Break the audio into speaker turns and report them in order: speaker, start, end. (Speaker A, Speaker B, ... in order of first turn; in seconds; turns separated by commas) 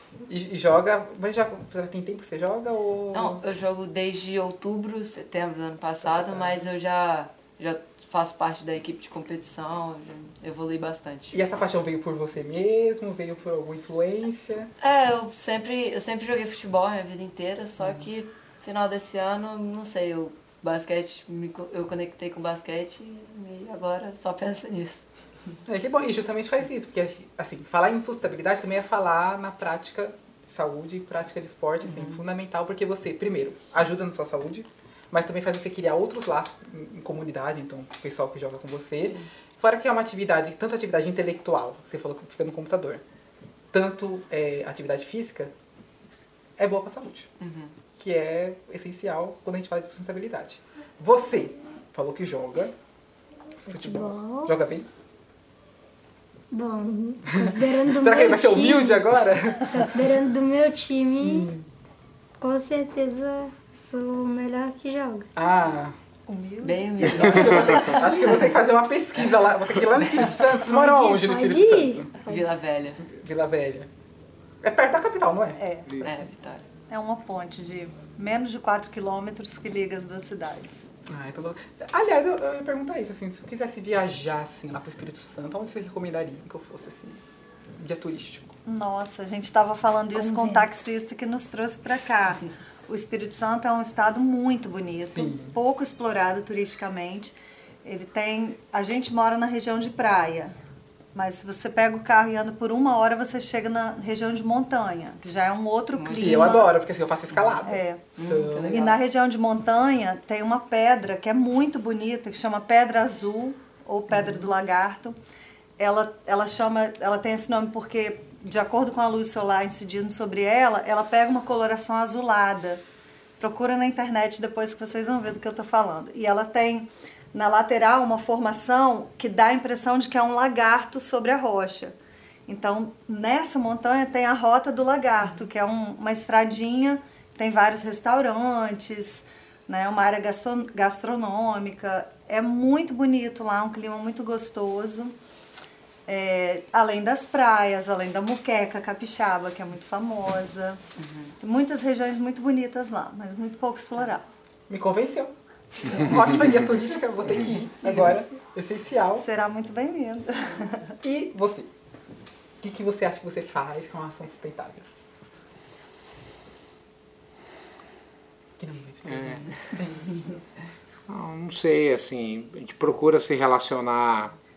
Speaker A: 0.3-3.4, Speaker B: 3.1-11.4, Speaker A: 6.0-6.7, Speaker A: 11.3-14.7, Speaker B: 14.8-25.1, Speaker A: 25.7-43.0, Speaker B: 31.9-32.2, Speaker B: 39.0-39.3, Speaker A: 43.7-45.5, Speaker A: 46.6-47.3, Speaker B: 47.4-47.8, Speaker A: 48.0-52.7, Speaker A: 53.7-54.9, Speaker C: 53.7-54.5, Speaker C: 56.5-61.5, Speaker A: 57.5-59.9, Speaker A: 61.2-61.6, Speaker C: 62.4-65.3, Speaker A: 65.4-66.0, Speaker D: 66.3-67.7, Speaker B: 66.6-68.5, Speaker A: 67.0-72.1, Speaker C: 70.6-72.4, Speaker B: 72.2-73.0, Speaker A: 73.0-73.9, Speaker A: 74.6-75.6, Speaker D: 75.6-76.0, Speaker B: 76.0-76.7, Speaker D: 76.9-80.8, Speaker A: 81.1-87.2, Speaker A: 87.8-88.5, Speaker D: 88.7-100.5, Speaker C: 90.1-90.7, Speaker A: 95.1-95.5, Speaker D: 101.1-106.8, Speaker B: 106.0-106.4, Speaker A: 106.2-108.8, Speaker B: 107.3-107.6, Speaker D: 107.6-108.1, Speaker B: 108.2-109.0, Speaker D: 108.7-115.2, Speaker B: 114.1-114.5, Speaker D: 115.8-122.8, Speaker D: 123.4-131.9, Speaker D: 132.5-145.2, Speaker D: 146.1-150.8, Speaker B: 151.0-151.4, Speaker D: 151.4-154.2, Speaker A: 154.7-155.3, Speaker B: 155.9-156.1, Speaker A: 155.9-159.2, Speaker D: 157.9-158.2, Speaker D: 159.2-160.9, Speaker A: 161.0-161.7, Speaker A: 162.6-164.9, Speaker A: 168.6-170.3, Speaker E: 169.1-169.5, Speaker E: 171.1-174.3